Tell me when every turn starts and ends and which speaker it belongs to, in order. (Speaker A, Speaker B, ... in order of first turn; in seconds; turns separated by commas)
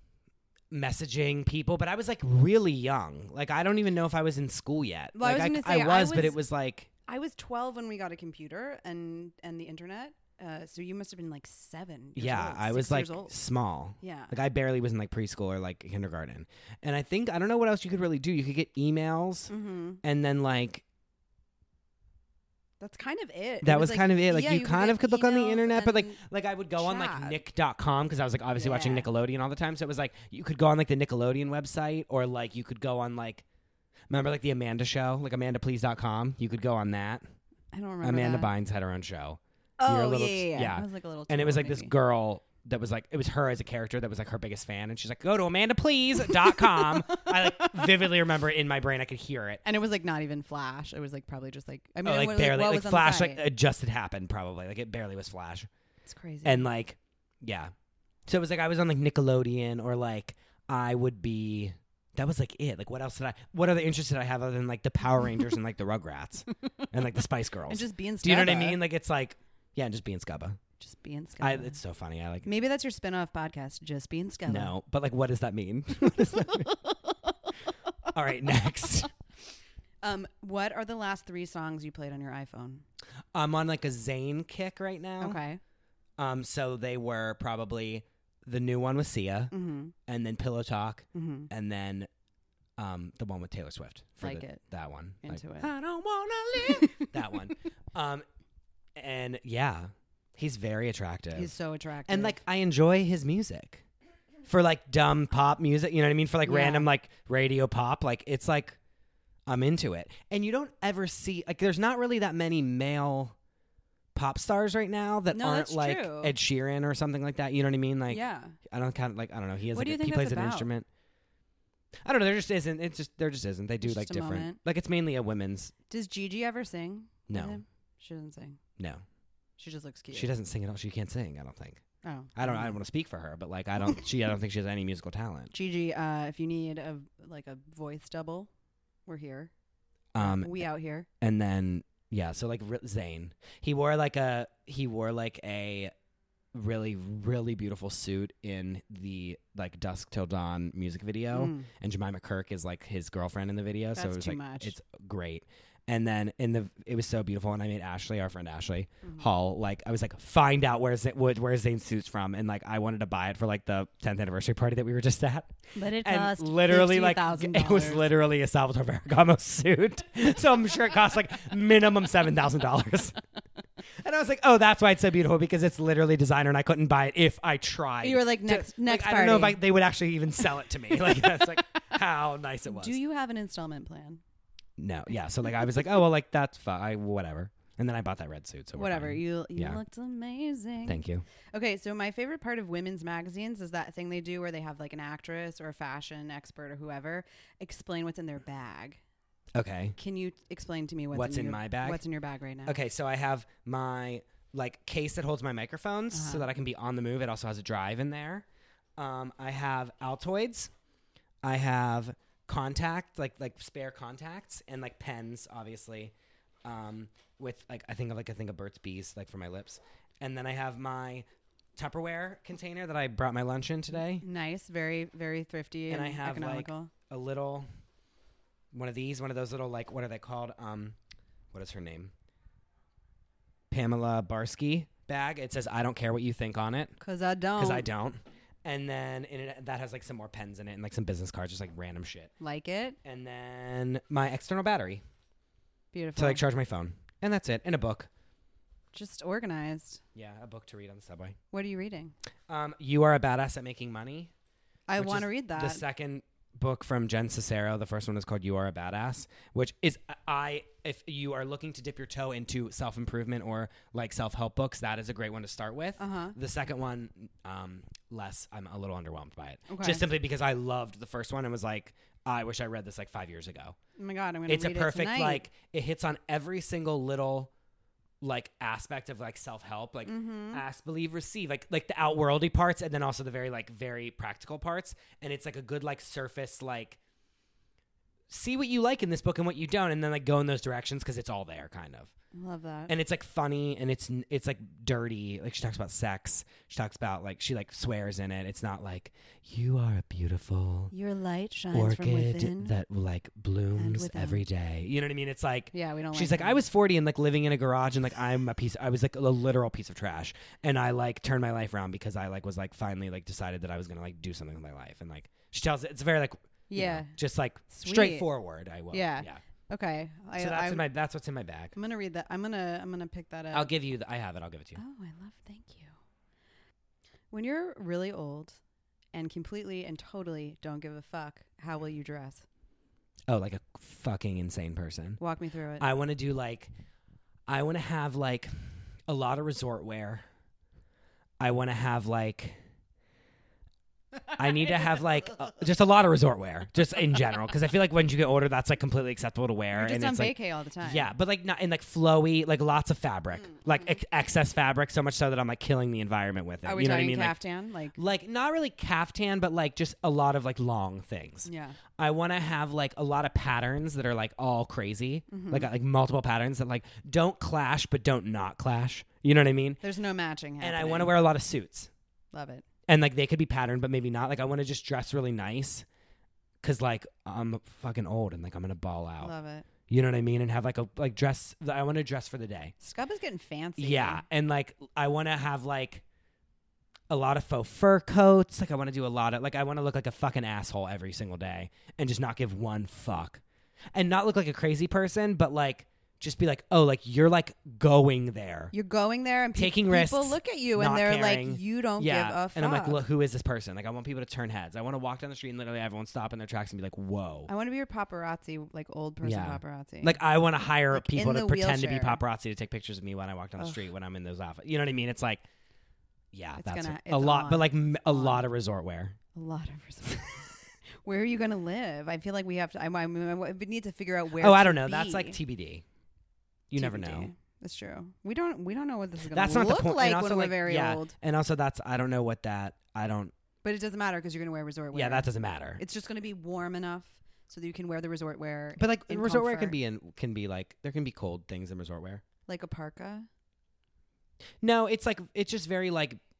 Speaker A: 0.7-6.9, Speaker B: 5.2-6.4, Speaker B: 7.1-13.4, Speaker A: 12.2-19.5, Speaker B: 14.0-14.3, Speaker B: 19.5-20.0, Speaker A: 20.0-20.8, Speaker B: 22.8-26.2, Speaker A: 23.6-33.4, Speaker B: 26.8-27.4, Speaker B: 28.6-29.1, Speaker A: 34.1-37.2, Speaker B: 37.7-38.5, Speaker A: 38.0-49.6, Speaker B: 39.8-41.9, Speaker B: 46.4-48.1, Speaker B: 49.6-53.5, Speaker A: 52.0-55.7, Speaker B: 56.1-56.7, Speaker A: 56.4-57.7, Speaker A: 58.3-70.6, Speaker B: 67.7-68.8, Speaker B: 70.8-71.8, Speaker A: 71.4-72.5, Speaker B: 72.5-74.7, Speaker A: 74.5-76.7, Speaker B: 76.7-77.2, Speaker A: 78.1-79.1, Speaker B: 80.0-82.8, Speaker A: 83.3-85.4, Speaker B: 85.2-85.6, Speaker A: 86.2-89.5, Speaker B: 89.5-89.9, Speaker A: 90.1-92.1, Speaker B: 91.2-91.5, Speaker A: 92.8-98.2, Speaker B: 94.2-94.6, Speaker B: 95.2-95.7, Speaker B: 96.8-97.1, Speaker A: 99.0-101.5, Speaker B: 101.3-102.4, Speaker A: 102.1-103.8, Speaker A: 104.5-108.8, Speaker B: 106.5-106.9, Speaker A: 109.5-113.3, Speaker A: 114.1-120.9, Speaker B: 115.3-116.3, Speaker B: 118.1-118.6, Speaker B: 119.7-120.7, Speaker A: 122.0-125.7, Speaker B: 123.8-124.6, Speaker B: 125.9-128.6, Speaker A: 127.3-127.6, Speaker A: 128.8-129.0, Speaker B: 129.6-130.3, Speaker A: 130.1-131.8, Speaker B: 132.0-132.8, Speaker A: 132.4-135.5, Speaker B: 135.5-138.5, Speaker B: 139.1-139.5, Speaker A: 140.1-140.6, Speaker B: 140.2-141.1, Speaker A: 141.2-145.9, Speaker A: 146.5-173.2, Speaker B: 151.3-151.7, Speaker B: 153.9-154.8, Speaker B: 165.8-168.1, Speaker A: 174.0-183.0, Speaker B: 178.0-179.6, Speaker B: 182.7-184.2, Speaker A: 184.8-189.8, Speaker B: 188.8-191.0, Speaker A: 190.9-191.2, Speaker B: 191.5-199.0, Speaker A: 199.5-200.0, Speaker B: 200.0-202.8, Speaker A: 201.1-202.0, Speaker A: 202.7-208.4, Speaker B: 206.1-206.5, Speaker A: 209.0-210.7, Speaker A: 211.4-216.1, Speaker A: 216.6-224.2, Speaker B: 224.2-226.9, Speaker A: 225.9-227.7, Speaker A: 228.7-231.0, Speaker A: 231.5-232.1, Speaker A: 233.7-237.0, Speaker B: 237.0-237.9, Speaker A: 237.6-242.3, Speaker B: 242.4-243.0, Speaker A: 243.0-245.0, Speaker B: 245.9-246.4, Speaker A: 246.2-248.1, Speaker B: 248.9-250.0, Speaker A: 250.2-251.4, Speaker B: 251.5-252.1, Speaker A: 252.5-254.3, Speaker B: 254.9-255.8, Speaker A: 255.0-273.8, Speaker B: 266.0-266.4, Speaker B: 269.7-270.0, Speaker B: 274.0-275.5, Speaker A: 274.5-277.5, Speaker A: 278.2-287.0, Speaker B: 280.1-280.6, Speaker A: 288.3-292.1, Speaker B: 292.3-292.9, Speaker A: 292.9-300.9, Speaker B: 300.9-302.7, Speaker A: 301.7-319.4, Speaker B: 303.8-304.4, Speaker B: 305.7-306.6, Speaker B: 316.7-317.2, Speaker B: 317.7-318.3, Speaker B: 318.9-320.9, Speaker A: 320.4-321.7, Speaker B: 321.8-323.7, Speaker A: 323.5-324.8, Speaker B: 324.8-326.0, Speaker B: 327.3-328.6, Speaker B: 329.1-332.4, Speaker A: 333.3-335.2, Speaker B: 335.2-335.9, Speaker A: 335.8-336.7, Speaker A: 337.5-340.2, Speaker A: 341.4-342.6, Speaker A: 344.4-357.4, Speaker B: 349.7-351.1, Speaker B: 356.6-358.0, Speaker A: 357.9-369.8, Speaker B: 361.4-361.8, Speaker B: 365.3-365.7, Speaker B: 369.8-371.2, Speaker A: 370.6-371.9, Speaker B: 372.3-372.6, Speaker A: 372.9-375.9, Speaker A: 376.6-379.3, Speaker B: 379.2-379.7, Speaker A: 379.9-382.7, Speaker B: 382.8-384.2, Speaker A: 383.8-386.0, Speaker A: 387.1-393.4, Speaker A: 393.9-398.7, Speaker B: 398.7-403.0, Speaker A: 399.6-407.5, Speaker B: 407.5-410.2, Speaker A: 409.2-415.4, Speaker B: 410.9-412.2, Speaker A: 416.3-419.2, Speaker B: 416.6-418.4, Speaker B: 419.4-425.4, Speaker A: 424.4-425.8, Speaker A: 426.7-427.3, Speaker B: 426.8-431.1, Speaker A: 429.3-433.3, Speaker B: 433.6-439.8, Speaker A: 434.9-435.8, Speaker A: 438.8-442.2, Speaker B: 442.5-443.3, Speaker A: 444.6-446.2